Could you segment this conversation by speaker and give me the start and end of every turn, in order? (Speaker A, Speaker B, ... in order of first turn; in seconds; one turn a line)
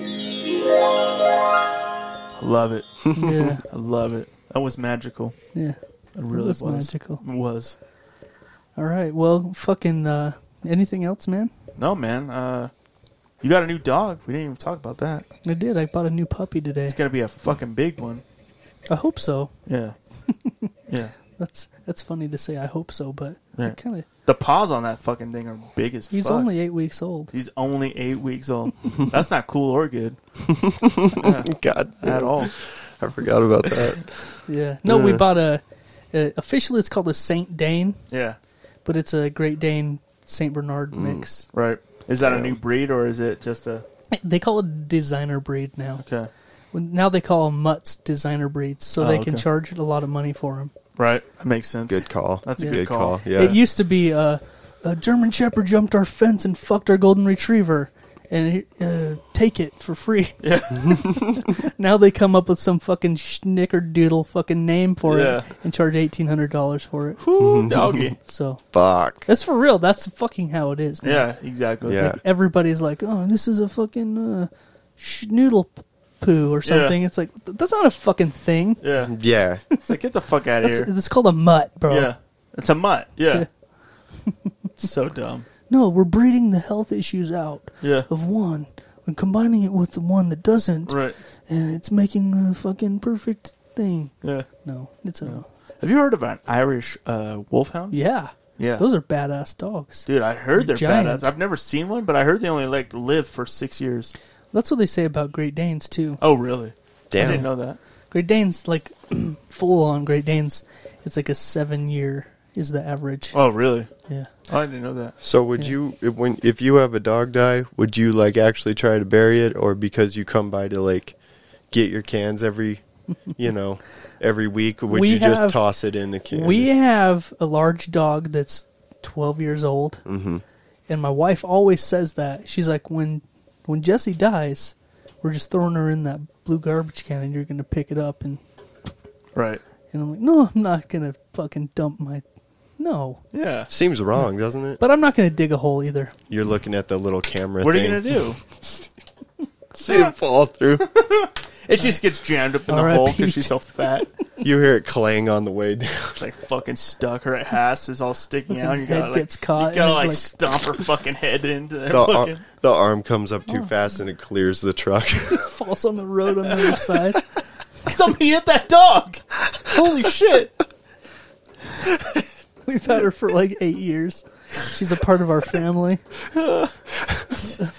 Speaker A: 2.4-5.4
Speaker B: 3.1-3.6
Speaker C: 3.1-3.5
Speaker A: 6.2-7.8
Speaker B: 6.3-7.2
Speaker B: 8.8-11.5
Speaker A: 11.8-12.7
Speaker A: 13.4-15.3
Speaker B: 15.4-17.0
Speaker A: 16.9-18.2
Speaker B: 18.9-19.5
Speaker A: 19.7-20.0
Speaker B: 20.3-20.7
Speaker B: 21.4-24.1
Speaker A: 23.6-26.5
Speaker B: 26.1-27.3
Speaker A: 27.3-30.2
Speaker C: 30.5-34.1
Speaker A: 31.1-32.5
Speaker B: 34.5-35.6
Speaker C: 34.9-35.2
Speaker B: 36.1-38.0
Speaker A: 38.1-38.4
Speaker B: 38.9-41.5
Speaker C: 40.9-41.2
Speaker A: 41.5-43.9
Speaker C: 42.2-42.6
Speaker B: 44.1-46.0
Speaker A: 46.0-46.3
Speaker B: 46.7-50.7
Speaker A: 49.0-49.4
Speaker A: 51.0-53.6
Speaker C: 51.9-53.6
Speaker B: 52.6-67.2
Speaker A: 60.4-61.0
Speaker A: 65.0-65.5
Speaker A: 67.2-68.2
Speaker C: 67.4-67.9
Speaker B: 68.2-68.6
Speaker C: 68.7-69.3
Speaker B: 69.3-71.3
Speaker A: 71.0-72.0
Speaker C: 71.9-72.2
Speaker B: 71.9-78.8
Speaker A: 76.7-77.0
Speaker A: 78.8-79.1
Speaker C: 79.0-79.6
Speaker A: 79.8-80.9
Speaker B: 80.6-82.1
Speaker A: 81.9-83.5
Speaker B: 84.2-84.5
Speaker A: 84.8-85.5
Speaker B: 85.7-95.5
Speaker A: 87.8-88.1
Speaker A: 90.9-91.2
Speaker A: 94.2-94.5
Speaker A: 95.2-98.0
Speaker B: 97.9-101.3
Speaker A: 98.6-98.8
Speaker A: 100.1-104.1
Speaker B: 104.5-106.2
Speaker A: 106.2-107.8
Speaker C: 107.1-107.5
Speaker B: 107.2-107.5
Speaker B: 108.1-113.4
Speaker A: 113.3-113.9
Speaker A: 114.5-115.2
Speaker C: 115.2-121.2
Speaker C: 121.7-122.8
Speaker C: 123.3-126.7
Speaker B: 124.9-125.6
Speaker B: 126.3-130.0
Speaker C: 130.1-130.4
Speaker B: 130.9-138.4
Speaker A: 139.3-139.6
Speaker B: 139.9-142.2
Speaker B: 142.8-143.2
Speaker A: 143.3-143.7
Speaker C: 143.7-144.8
Speaker B: 144.8-146.1
Speaker C: 146.3-148.9
Speaker A: 147.6-148.4
Speaker C: 149.7-150.9
Speaker A: 150.8-154.1
Speaker B: 152.7-153.6
Speaker C: 154.4-156.2
Speaker A: 156.2-162.4
Speaker B: 158.5-160.3
Speaker C: 161.9-165.5
Speaker B: 165.3-167.2
Speaker A: 167.9-170.5
Speaker B: 172.7-176.0
Speaker A: 176.3-176.7